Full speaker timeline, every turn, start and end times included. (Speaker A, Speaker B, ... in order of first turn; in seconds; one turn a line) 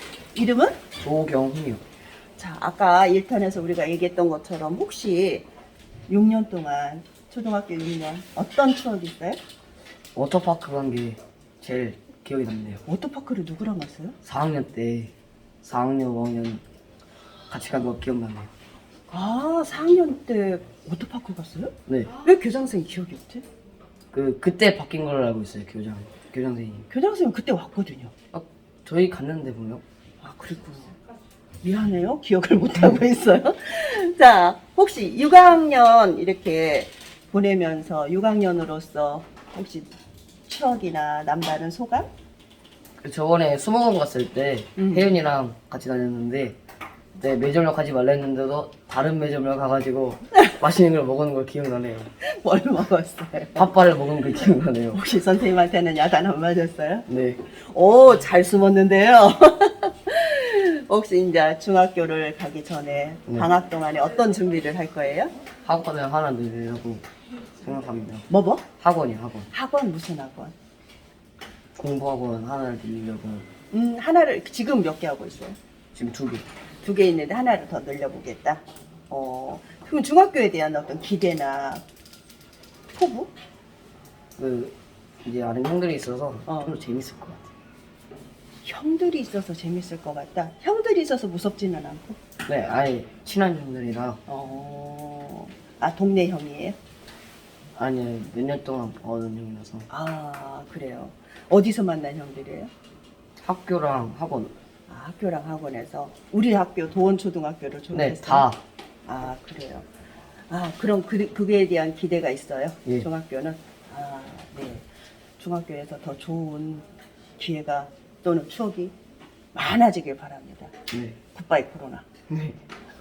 Speaker A: 0.3-0.7
Speaker B: 1.0-1.8
Speaker A: 2.4-5.4
Speaker A: 6.1-9.4
Speaker B: 10.1-12.8
Speaker A: 12.8-14.2
Speaker B: 14.2-16.6
Speaker B: 17.5-18.5
Speaker A: 19.1-23.4
Speaker B: 21.9-22.1
Speaker B: 24.1-26.9
Speaker A: 26.9-28.1
Speaker B: 28.3-29.8
Speaker A: 30.2-30.9
Speaker A: 31.6-39.9
Speaker A: 40.5-42.1
Speaker B: 43.0-46.6
Speaker A: 44.8-45.1
Speaker B: 47.2-52.1
Speaker A: 52.2-53.7
Speaker B: 53.5-55.0
Speaker A: 54.9-65.3
Speaker B: 57.1-57.4
Speaker B: 65.6-67.0
Speaker B: 67.6-68.2
Speaker A: 68.3-68.6
Speaker B: 68.8-69.5
Speaker A: 69.5-70.5
Speaker B: 71.8-73.5
Speaker A: 73.7-75.6
Speaker B: 75.9-76.4
Speaker A: 76.8-81.8
Speaker A: 82.9-83.3
Speaker B: 84.4-87.4
Speaker A: 86.5-86.7
Speaker A: 88.6-92.2
Speaker B: 92.5-94.2
Speaker A: 94.3-96.8
Speaker B: 97.8-99.9
Speaker A: 99.9-102.7
Speaker B: 103.4-104.5
Speaker A: 104.9-108.5
Speaker B: 107.9-108.6
Speaker A: 109.0-109.8
Speaker A: 110.5-114.8
Speaker A: 115.4-116.8
Speaker A: 117.4-118.9
Speaker A: 119.5-120.7
Speaker B: 120.9-121.2
Speaker A: 121.3-122.1
Speaker B: 122.3-122.6